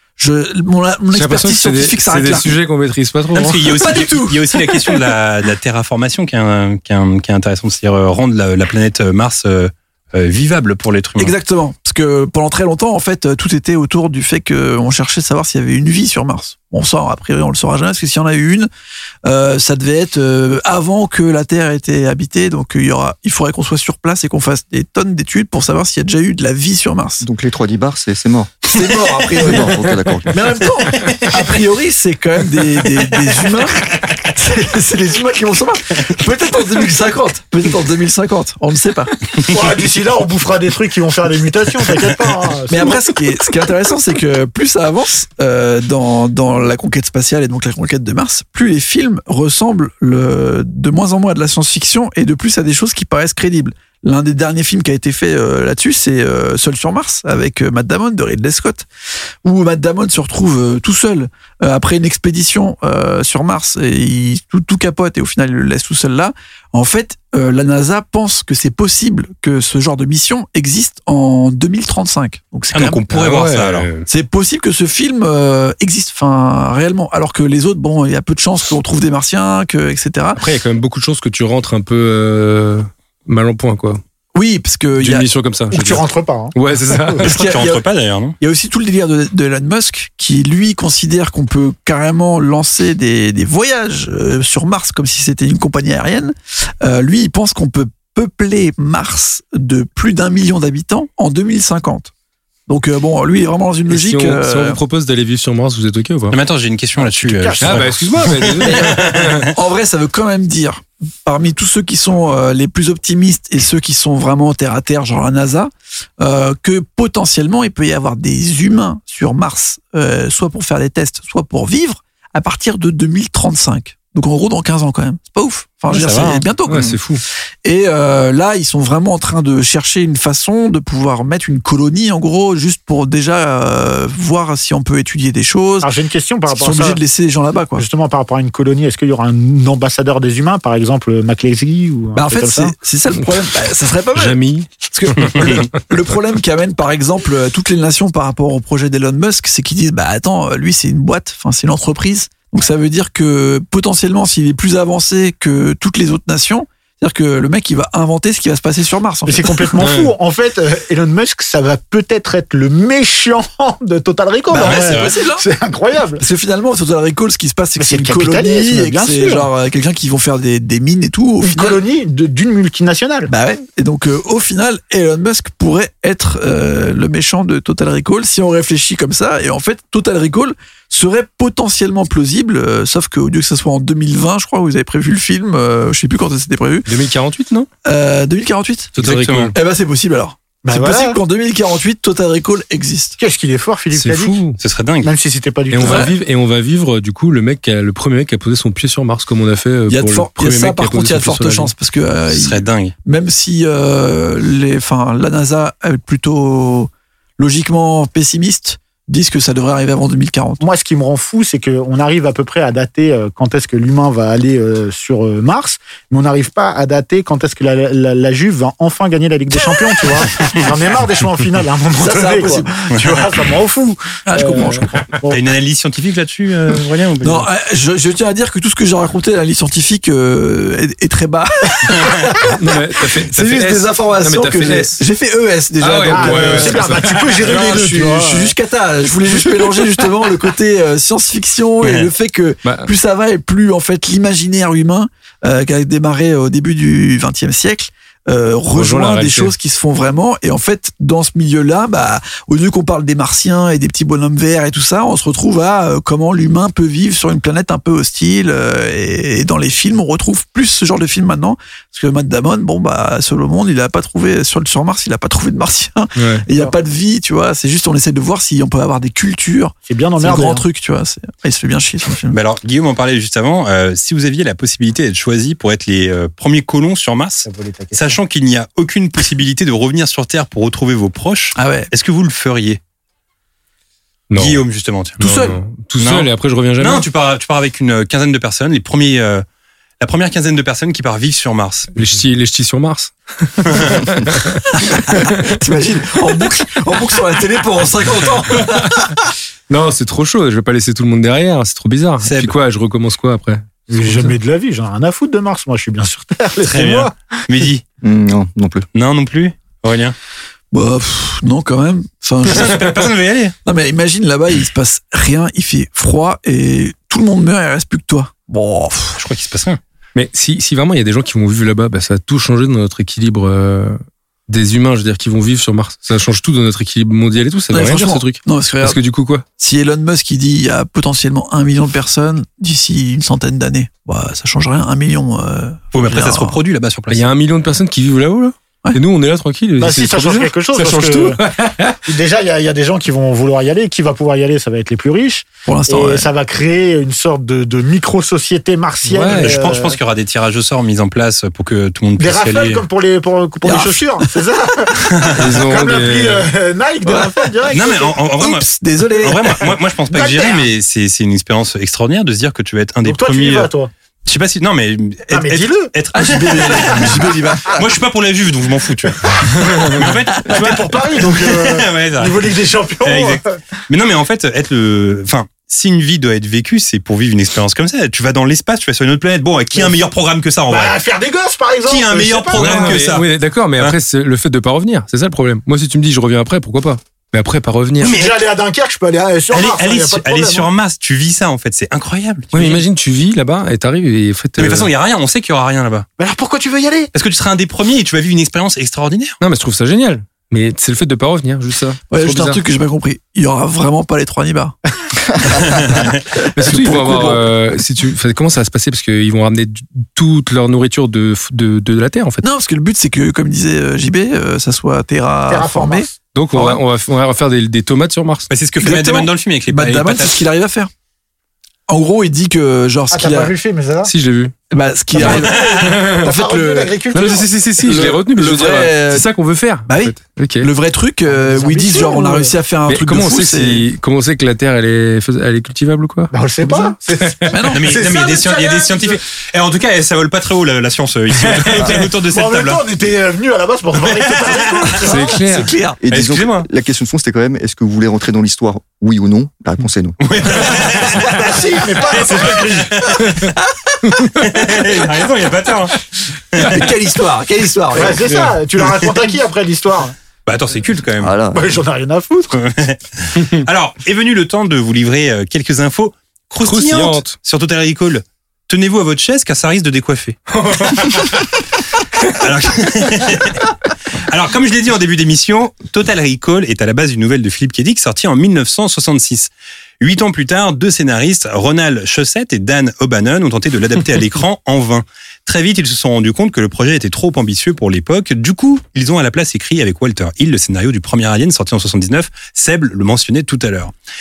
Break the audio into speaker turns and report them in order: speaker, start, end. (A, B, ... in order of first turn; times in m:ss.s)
0:00.2-0:02.6 A
0:01.1-0:03.9 B
0:03.3-0:11.3 C
0:03.6-0:05.1 A
0:11.2-0:18.7 A
0:19.2-0:27.3 A
0:27.2-0:28.7 D
0:28.6-0:29.8 A
0:29.4-0:30.4 D
0:30.3-0:39.2 A
0:39.4-0:43.1 E
0:42.7-0:58.9 A
0:59.4-1:13.1 A
1:12.7-1:13.9 C
1:13.1-1:14.1 B
1:14.1-1:20.5 A
1:20.4-1:24.0 B
1:24.3-1:26.0 A
1:25.0-1:26.0 B
1:25.7-1:27.2 E
1:26.5-1:27.3 B
1:27.2-1:27.8 A
1:27.2-1:28.4 C
1:28.4-1:42.1 A
1:42.7-1:44.8 A
1:43.9-1:46.4 B
1:46.3-1:49.5 C
1:47.0-1:48.3 E
1:47.6-1:49.5 B
1:48.6-2:07.0 A
2:05.9-2:06.4 C
2:06.7-2:07.2 B
2:07.6-2:15.9 A
2:15.8-2:17.0 E
2:16.5-2:17.9 A
2:17.8-2:22.8 E
2:22.1-2:39.7 A
2:24.2-2:25.9 B
2:39.3-2:46.2 E
2:39.8-2:40.1 B
2:44.5-2:45.5 A
2:44.6-2:45.1 C
2:46.2-2:51.8 A
2:47.8-2:49.5 E
2:51.4-2:53.3 E
2:53.3-3:06.9 A
3:06.9-3:07.7 B
3:07.8-3:09.0 A
3:09.0-3:09.6 B
3:09.0-3:09.5 C
3:09.5-3:13.2 A
3:10.6-3:11.2 E
3:13.2-3:14.4 E
3:13.9-3:14.6 B
3:14.6-3:15.1 C
3:15.0-3:16.1 E
3:15.7-3:21.7 B
3:15.8-3:16.1 A
3:19.9-3:30.6 A
3:22.3-3:22.9 C
3:30.6-3:45.4 E
3:42.0-3:42.8 A
3:42.9-3:43.2 C
3:44.3-3:45.0 A
3:45.3-3:47.5 C
3:47.2-4:32.4 A
3:52.5-3:55.0 B
3:55.8-3:57.4 B
3:56.1-3:58.6 E
4:01.8-4:02.1 C
4:02.6-4:02.9 B
4:08.7-4:09.5 B
4:26.2-4:26.4 B
4:29.9-4:30.6 E
4:32.3-4:42.8 C
4:37.4-4:38.2 E
4:41.6-4:41.9 A
4:44.3-4:44.6 B
4:44.4-4:45.2 C
4:45.2-4:47.1 B
4:45.2-4:45.6 A
4:46.0-4:49.4 C
4:50.0-4:52.0 C
4:51.9-4:55.5 B
4:54.8-4:59.2 A
4:59.7-5:04.3 B
5:02.2-5:02.6 C
5:03.9-5:07.1 E
5:06.6-5:07.8 C
5:08.0-5:08.9 D
5:08.9-5:10.2 C
5:10.7-5:13.0 A
5:12.5-5:13.6 C
5:13.6-5:19.2 A
5:19.2-5:19.8 C
5:20.2-5:29.5 B
5:27.7-5:29.0 A
5:29.6-5:36.6 A
5:35.9-5:37.3 C
5:37.1-5:42.0 B
5:39.8-5:41.4 E
5:42.1-5:50.0 E
5:45.7-5:46.3 A
5:49.1-5:49.7 B
5:49.2-5:52.8 C
5:52.2-5:58.2 E
5:53.6-5:54.2 A
5:55.2-5:55.4 C
5:55.4-5:56.5 B
5:57.1-5:57.7 A
5:57.7-5:58.7 C
5:58.4-5:59.6 A
5:59.2-6:03.7 C
6:00.1-6:00.7 E
6:03.0-6:03.9 E
6:04.3-6:21.0 C
6:05.3-6:05.9 E
6:06.1-6:07.8 A
6:10.4-6:13.6 E
6:20.7-6:23.1 E
6:21.8-6:23.3 C
6:22.6-6:28.2 B
6:28.0-6:28.4 C
6:28.0-6:30.7 E
6:29.5-6:32.8 C
6:32.5-6:34.9 B
6:34.6-6:36.1 C
6:36.2-6:37.1 E
6:37.1-6:39.4 C
6:39.4-6:42.6 B
6:42.1-6:44.8 A
6:45.6-6:47.5 A
6:46.6-6:52.4 B
6:52.4-6:56.8 A
6:55.5-6:56.2 E
6:56.3-6:58.5 B
6:58.5-7:00.4 C
6:58.8-7:00.9 A
7:01.9-7:03.6 A
7:03.1-7:04.1 E
7:04.0-7:04.5 B
7:04.7-7:07.0 A
7:05.2-7:07.5 E
7:05.2-7:06.3 B
7:05.2-7:05.8 C
7:07.1-7:10.7 B
7:07.8-7:09.3 A
7:09.9-7:13.9 A
7:11.3-7:12.5 E
7:12.9-7:16.3 B
7:16.3-7:19.2 E
7:16.6-7:16.9 A
7:17.5-7:18.0 A
7:17.7-7:22.8 C
7:21.5-7:22.0 B
7:21.8-7:25.4 E
7:24.0-7:24.8 C
7:25.0-7:26.0 A
7:25.0-7:25.7 B
7:26.0-7:30.6 D
7:26.1-7:26.7 C
7:30.2-7:33.4 C
7:31.2-7:33.1 E
7:33.6-7:33.9 A
7:34.4-7:36.0 C
7:36.5-7:36.9 C
7:36.6-7:38.2 A
7:37.9-7:40.2 E
7:38.1-7:39.1 C
7:40.5-7:41.3 C
7:41.2-7:41.7 D
7:41.5-7:42.6 E
7:42.5-7:51.4 C
7:46.6-7:47.4 B
7:50.5-7:51.4 B
7:52.3-7:53.7 C
7:54.3-8:13.9 C